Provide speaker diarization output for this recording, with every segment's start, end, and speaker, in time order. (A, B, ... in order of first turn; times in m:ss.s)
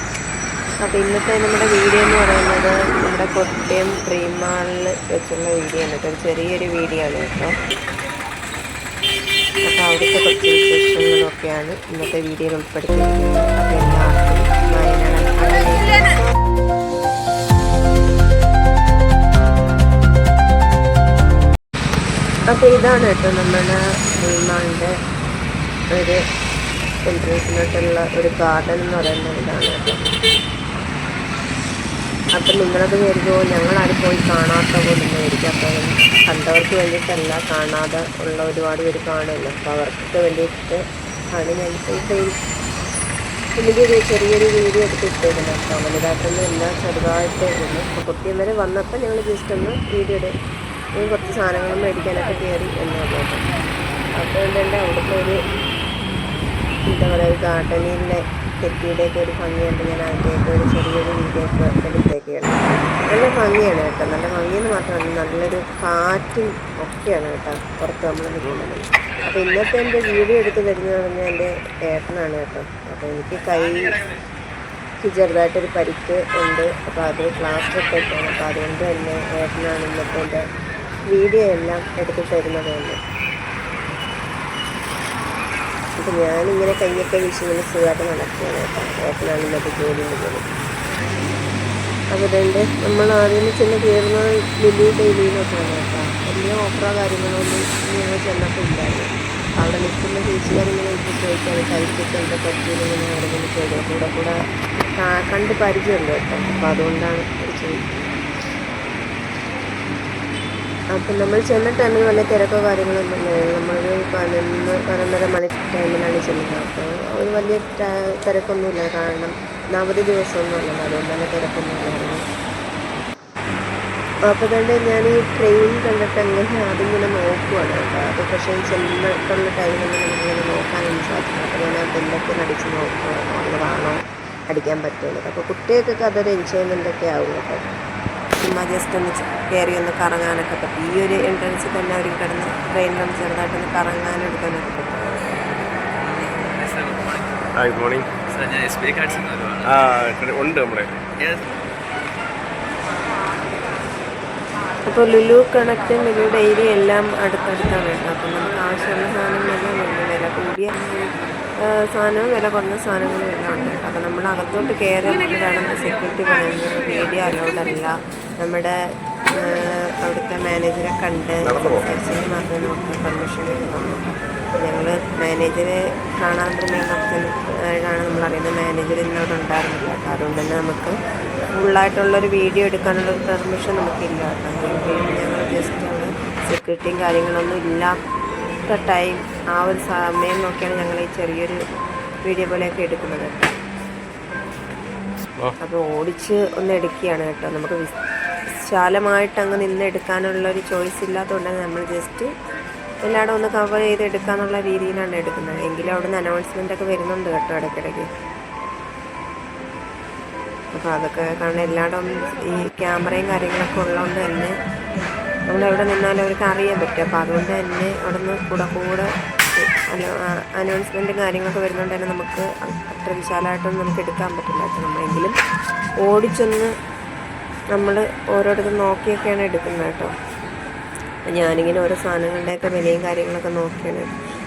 0:00.8-0:07.5 A
0:09.6-0:16.2 A
0:22.5-0:25.0 A
0:25.9-0:26.2 A
0:27.1-0:30.1 A
0:32.4-0:42.4 A
0:43.6-0:50.4 A
0:51.0-0:53.4 A
0:54.2-0:55.4 A
0:56.9-1:14.0 A
1:15.0-1:20.5 A
1:21.1-1:23.0 A
1:26.0-1:30.5 A
1:32.1-1:44.4 A
1:45.0-1:47.8 A
1:50.9-2:02.2 A
2:04.3-2:17.7 A
2:18.4-2:25.1 A
2:26.0-2:27.5 B
2:27.6-2:28.1 C
2:28.3-2:29.7 B
2:29.6-2:31.1 C
2:31.2-2:31.4 B
2:34.9-2:40.7 A
2:41.6-2:48.8 A
2:49.3-3:01.0 A
2:51.4-2:51.8 C
3:01.5-3:08.0 A
3:08.7-3:11.6 A
3:12.2-3:13.5 A
3:15.6-3:17.9 A
3:18.5-3:22.3 A
3:23.0-3:28.1 A
3:30.7-3:34.6 A
3:35.5-3:45.4 A
3:46.0-3:46.7 A
3:47.7-3:50.1 A
3:51.3-3:54.1 A